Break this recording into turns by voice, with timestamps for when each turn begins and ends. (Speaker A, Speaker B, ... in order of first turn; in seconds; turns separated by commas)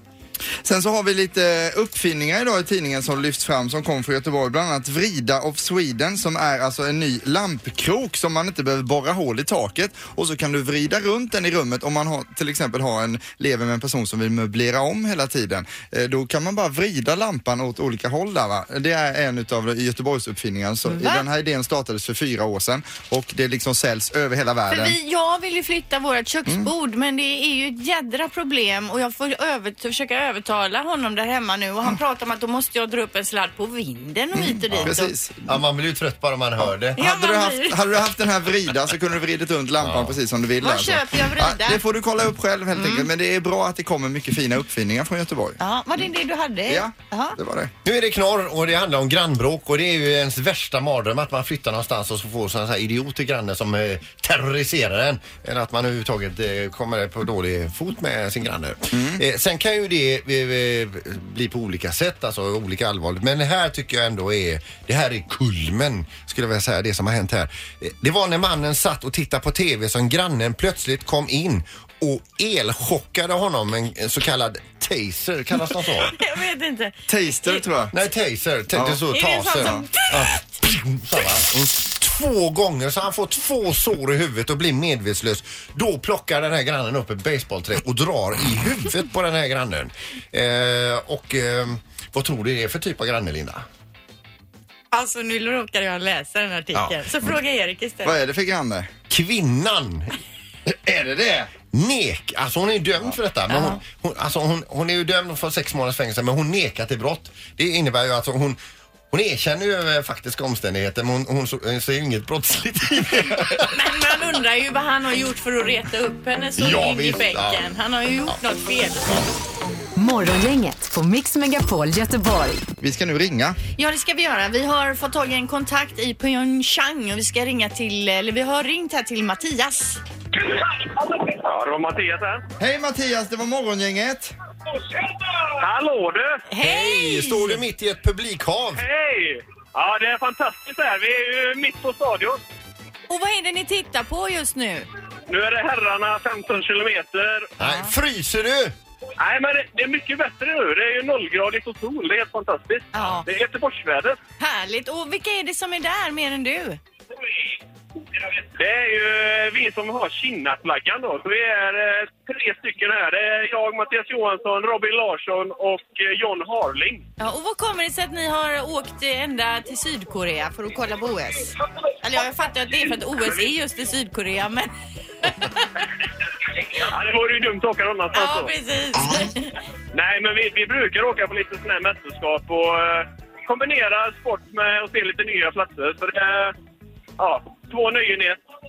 Speaker A: 0.6-25.0, Speaker B: 20.9-21.2, Speaker B: 24.7-35.1, Speaker A: 34.3-35.6, Speaker C: 35.5-37.0, Speaker A: 36.6-45.6, Speaker B: 37.0-37.8, Speaker C: 39.8-40.1, Speaker B: 40.6-41.8, Speaker B: 42.7-43.1, Speaker B: 45.6-47.4, Speaker A: 46.7-47.7, Speaker C: 47.8-76.2, Speaker A: 58.9-59.2, Speaker B: 76.1-77.7, Speaker A: 77.1-77.9, Speaker C: 77.9-93.6, Speaker A: 78.7-79.0, Speaker B: 79.1-80.5, Speaker A: 79.6-79.8, Speaker B: 94.9-98.2, Speaker C: 96.7-97.0, Speaker A: 98.0-98.9, Speaker C: 99.1-100.1, Speaker A: 100.7-101.5, Speaker C: 101.7-108.6, Speaker B: 103.5-103.8, Speaker C: 109.1-113.7, Speaker B: 113.5-119.2, Speaker C: 116.6-117.7, Speaker D: 120.0-122.6, Speaker A: 122.8-123.6, Speaker B: 123.8-130.0, Speaker E: 130.4-132.4, Speaker A: 132.6-134.3, Speaker E: 135.6-136.4, Speaker B: 136.5-137.6, Speaker C: 136.6-138.8, Speaker E: 138.8-142.4, Speaker B: 143.1-144.9, Speaker E: 145.3-147.5, Speaker C: 147.6-148.7, Speaker B: 147.6-147.9, Speaker E: 149.2-154.2, Speaker B: 152.9-153.2, Speaker B: 154.4-156.8, Speaker E: 158.4-167.1, Speaker B: 167.2-174.7, Speaker B: 175.2-175.7, Speaker E: 176.8-178.5, Speaker B: 178.1-179.6, Speaker E: 179.9-186.5, Speaker E: 187.2-188.4